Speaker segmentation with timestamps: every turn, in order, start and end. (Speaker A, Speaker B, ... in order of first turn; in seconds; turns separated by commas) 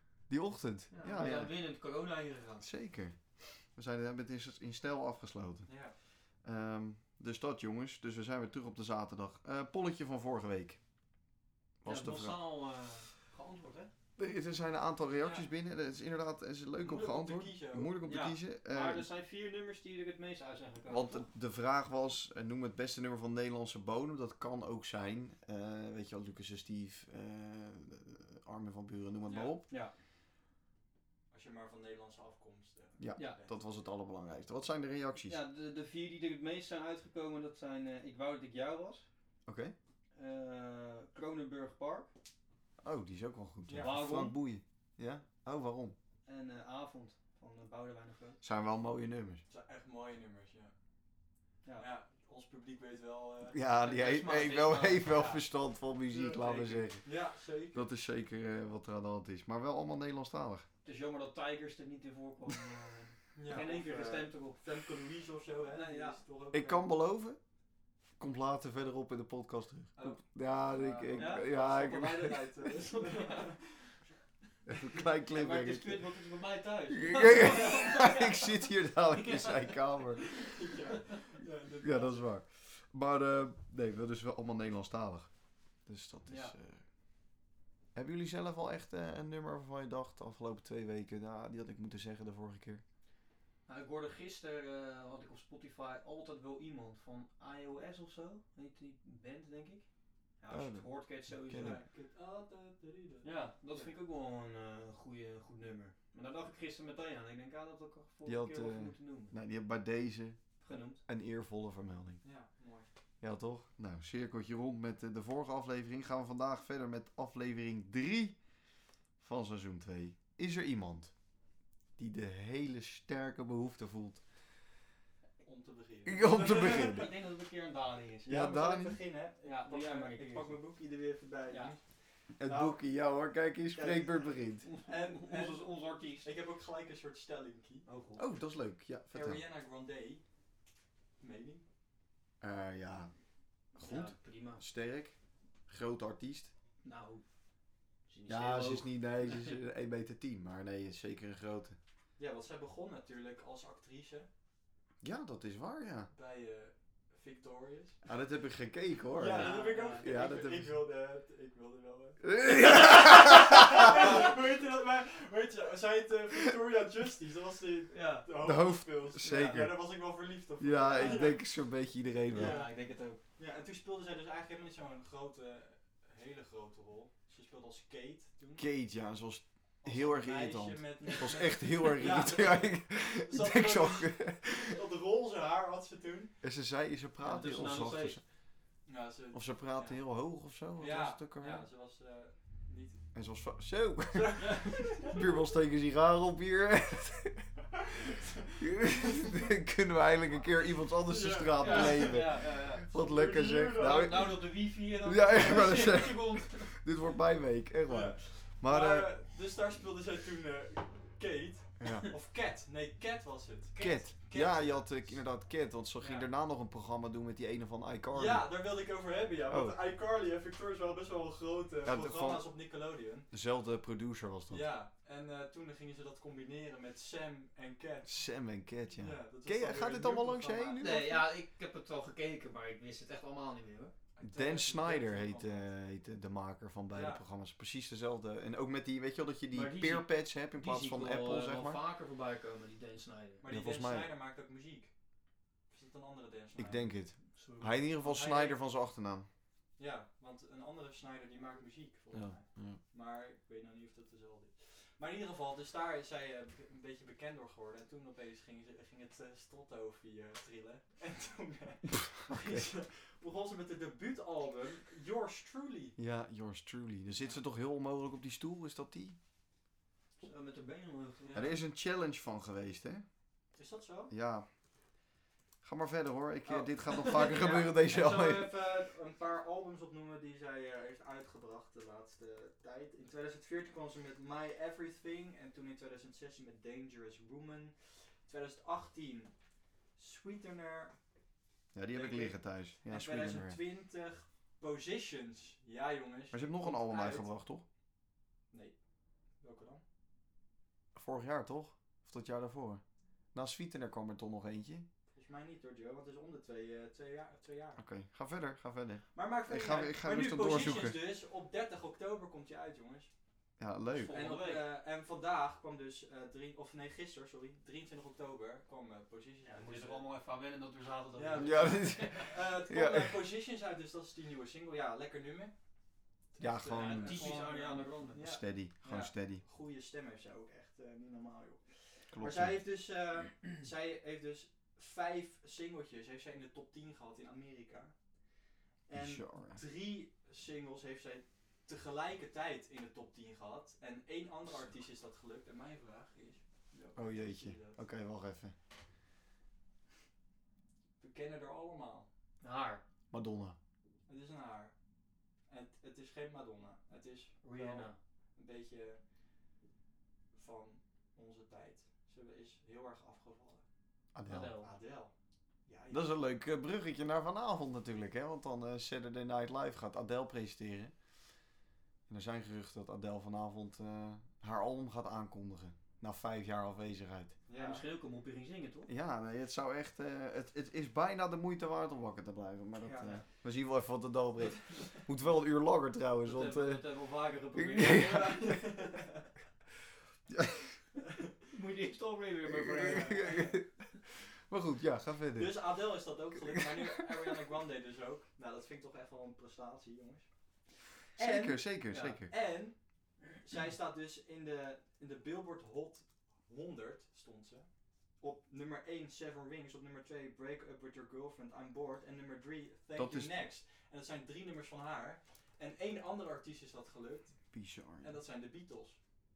Speaker A: 0.3-1.5, Speaker B: 0.9-2.7, Speaker A: 2.6-5.7, Speaker C: 5.7-6.0, Speaker A: 6.4-10.8, Speaker A: 11.8-12.4, Speaker B: 11.8-13.9, Speaker A: 14.2-19.1, Speaker C: 15.2-15.5, Speaker C: 16.8-17.9, Speaker B: 18.0-21.2, Speaker A: 20.9-29.6, Speaker C: 29.3-29.6, Speaker C: 31.3-33.5, Speaker A: 33.0-35.4, Speaker B: 33.2-33.4, Speaker B: 35.2-39.0, Speaker A: 39.5-39.7, Speaker B: 40.1-42.1, Speaker A: 42.8-45.9, Speaker C: 43.7-44.0, Speaker B: 43.8-44.4, Speaker B: 46.2-48.4, Speaker A: 48.4-49.4, Speaker C: 49.5-50.7, Speaker C: 51.8-53.6, Speaker A: 53.5-57.0, Speaker B: 53.8-55.4, Speaker B: 56.1-56.9, Speaker C: 57.0-57.8, Speaker A: 57.7-60.6, Speaker B: 60.8-64.6, Speaker C: 63.3-66.8, Speaker B: 65.7-66.2, Speaker A: 66.5-67.4, Speaker A: 68.2-72.5, Speaker C: 70.0-73.9, Speaker B: 71.1-71.5, Speaker B: 72.7-73.6, Speaker A: 74.7-76.1, Speaker B: 75.2-78.6, Speaker A: 76.9-80.3, Speaker B: 79.1-80.3, Speaker C: 80.4-82.2, Speaker A: 81.8-85.3, Speaker A: 85.8-86.8, Speaker B: 86.3-86.5, Speaker A: 87.9-92.8, Speaker B: 93.7-99.9, Speaker B: 100.4-101.8, Speaker A: 100.5-100.9, Speaker A: 101.4-101.8, Speaker C: 101.6-103.9, Speaker B: 103.2-109.3, Speaker A: 108.2-112.2, Speaker B: 110.6-111.0, Speaker C: 112.2-112.9, Speaker A: 113.2-118.4, Speaker A: 119.2-121.1, Speaker A: 122.0-124.2, Speaker C: 125.4-127.1, Speaker A: 126.0-127.1, Speaker B: 126.5-128.4, Speaker C: 128.2-131.8, Speaker A: 128.3-129.0, Speaker B: 129.4-130.6, Speaker B: 131.5-131.7, Speaker A: 132.4-134.7, Speaker C: 132.4-132.8, Speaker C: 133.7-134.2, Speaker B: 134.6-136.3, Speaker C: 134.8-135.7, Speaker C: 136.2-137.8, Speaker B: 137.8-138.3, Speaker A: 138.2-139.4, Speaker C: 139.1-140.2, Speaker C: 141.2-141.6, Speaker A: 142.4-143.1, Speaker A: 143.7-145.2, Speaker B: 143.8-144.6, Speaker A: 145.7-146.5, Speaker B: 146.8-147.2, Speaker B: 148.1-149.6, Speaker A: 148.3-151.8, Speaker C: 152.2-154.3, Speaker A: 155.0-156.1, Speaker C: 156.1-158.0, Speaker A: 158.0-160.7, Speaker C: 159.1-171.4, Speaker B: 159.2-160.1, Speaker A: 162.2-164.0, Speaker B: 167.9-168.3, Speaker A: 168.4-169.8, Speaker B: 169.2-169.6, Speaker A: 170.6-172.6, Speaker B: 170.9-171.3, Speaker C: 172.3-172.8, Speaker B: 172.3-173.2, Speaker C: 173.4-178.7, Speaker A: 178.6-184.7, Speaker C: 179.8-186.3, Speaker A: 186.4-188.2, Speaker B: 187.2-188.2, Speaker C: 188.8-190.0, Speaker A: 189.3-191.6, Speaker C: 190.8-193.0, Speaker A: 193.1-197.5, Speaker C: 194.1-195.2, Speaker C: 198.1-198.5, Speaker A: 198.6-204.4, Speaker C: 201.0-204.3, Speaker B: 201.6-202.9, Speaker B: 203.7-206.8, Speaker A: 205.0-209.1, Speaker C: 207.9-215.2, Speaker A: 211.8-212.1, Speaker A: 213.8-218.5, Speaker B: 216.0-216.3, Speaker C: 218.1-223.3, Speaker A: 219.5-219.8, Speaker A: 221.8-222.5, Speaker A: 223.3-224.7, Speaker C: 224.5-228.1, Speaker A: 228.0-231.2, Speaker C: 229.0-230.9, Speaker B: 230.8-233.9, Speaker C: 234.2-235.7, Speaker A: 234.2-241.8, Speaker C: 236.9-237.2, Speaker B: 239.5-243.4, Speaker C: 243.4-244.9, Speaker A: 243.5-244.1, Speaker C: 245.7-246.9, Speaker A: 246.6-249.3, Speaker B: 247.3-247.8, Speaker C: 248.0-248.6, Speaker C: 249.8-265.9, Speaker A: 252.1-252.8, Speaker A: 261.9-262.7, Speaker A: 266.0-269.2, Speaker B: 270.2-271.5, Speaker C: 271.2-271.5, Speaker A: 271.3-273.0, Speaker C: 273.6-274.1, Speaker A: 274.1-274.5, Speaker A: 275.6-278.5, Speaker C: 276.4-289.3, Speaker C: 289.9-290.9, Speaker A: 291.7-293.6, Speaker C: 291.9-297.3, Speaker A: 296.3-297.6, Speaker C: 298.5-298.8, Speaker C: 299.4-299.8, Speaker A: 300.9-302.8, Speaker A: 303.3-304.9, Speaker C: 305.1-307.8, Speaker A: 307.8-311.0, Speaker C: 309.1-313.1, Speaker A: 313.6-314.1, Speaker B: 313.9-314.7, Speaker C: 314.1-320.0, Speaker B: 319.4-322.3, Speaker C: 321.1-325.5, Speaker A: 321.4-323.2, Speaker C: 326.3-337.9, Speaker A: 326.4-327.5, Speaker B: 326.8-328.2, Speaker A: 328.1-329.4, Speaker A: 332.1-332.6, Speaker C: 338.9-347.8, Speaker A: 338.9-339.6, Speaker A: 346.9-348.5, Speaker C: 351.0-352.1, Speaker B: 352.4-352.8, Speaker A: 353.1-353.6, Speaker C: 354.1-354.7, Speaker C: 355.5-359.0, Speaker B: 357.4-358.0, Speaker C: 360.3-363.6, Speaker A: 364.1-364.5, Speaker B: 364.3-364.7, Speaker C: 364.6-365.1, Speaker C: 365.7-366.2, Speaker A: 365.9-370.9, Speaker A: 372.1-377.4, Speaker C: 377.5-377.8, Speaker B: 377.5-378.9, Speaker A: 378.9-386.8, Speaker C: 382.8-383.2, Speaker C: 384.6-385.0, Speaker B: 386.2-388.6, Speaker A: 387.5-388.6, Speaker C: 387.9-389.3, Speaker A: 390.3-390.8, Speaker B: 391.5-393.5, Speaker A: 392.6-395.8, Speaker C: 392.9-393.3, Speaker C: 395.4-400.3, Speaker C: 401.1-407.7, Speaker A: 401.2-402.3, Speaker C: 408.2-419.0, Speaker A: 412.9-413.3, Speaker A: 417.5-418.2